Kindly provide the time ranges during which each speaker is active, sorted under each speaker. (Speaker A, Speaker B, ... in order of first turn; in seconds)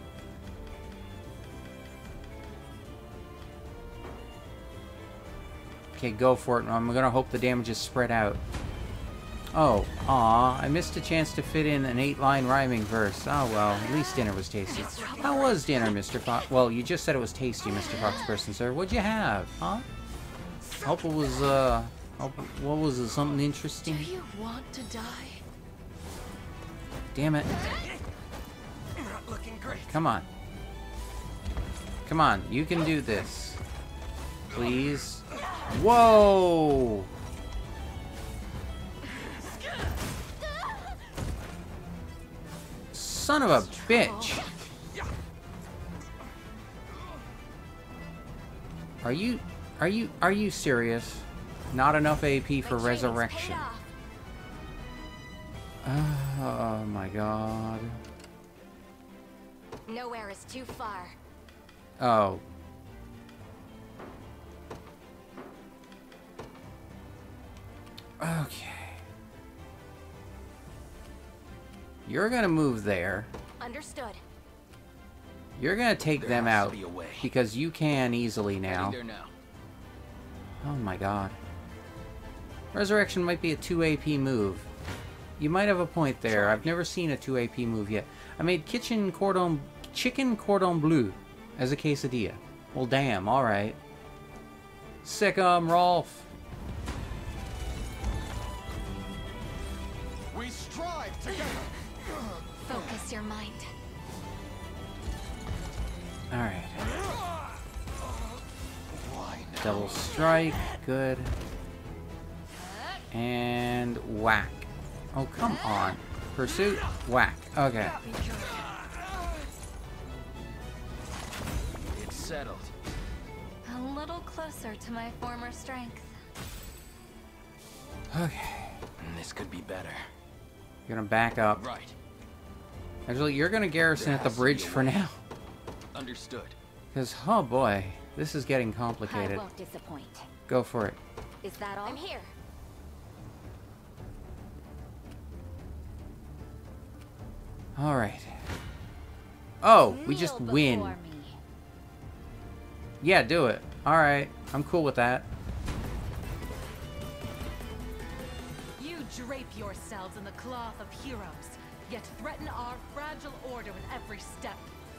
Speaker A: 6.0-8.4, 9.5-19.9, 20.8-24.1, 27.1-27.6, 29.7-30.3, 32.1-33.6, 34.5-37.1, 42.9-44.5, 49.0-53.6, 55.8-58.0, 62.0-62.4, 68.2-69.0, 72.1-73.3, 75.6-79.0, 80.6-81.4, 82.7-84.7, 85.4-93.8, 95.0-96.3, 106.3-107.0, 109.6-111.4, 113.1-118.0, 128.1-128.8, 130.9-131.7, 133.1-135.2, 136.9-139.4, 140.5-141.0, 147.8-148.4, 149.6-151.0, 153.0-155.3
Speaker B: 14.9-15.9, 17.6-18.4, 23.9-25.4, 43.6-44.5, 52.6-53.9, 59.9-61.2, 73.6-74.2, 102.6-103.7, 112.7-113.0, 115.5-115.9, 117.8-118.7, 123.7-126.2, 139.0-140.3, 141.4-142.3, 149.8-151.4
Speaker C: 29.0-29.9, 76.2-77.3, 78.7-79.3, 86.3-86.7, 100.3-101.5, 109.0-110.2, 121.9-122.7, 129.0-130.1, 131.5-131.9, 133.9-135.1, 135.9-136.6
Speaker D: 43.9-44.4, 158.8-164.7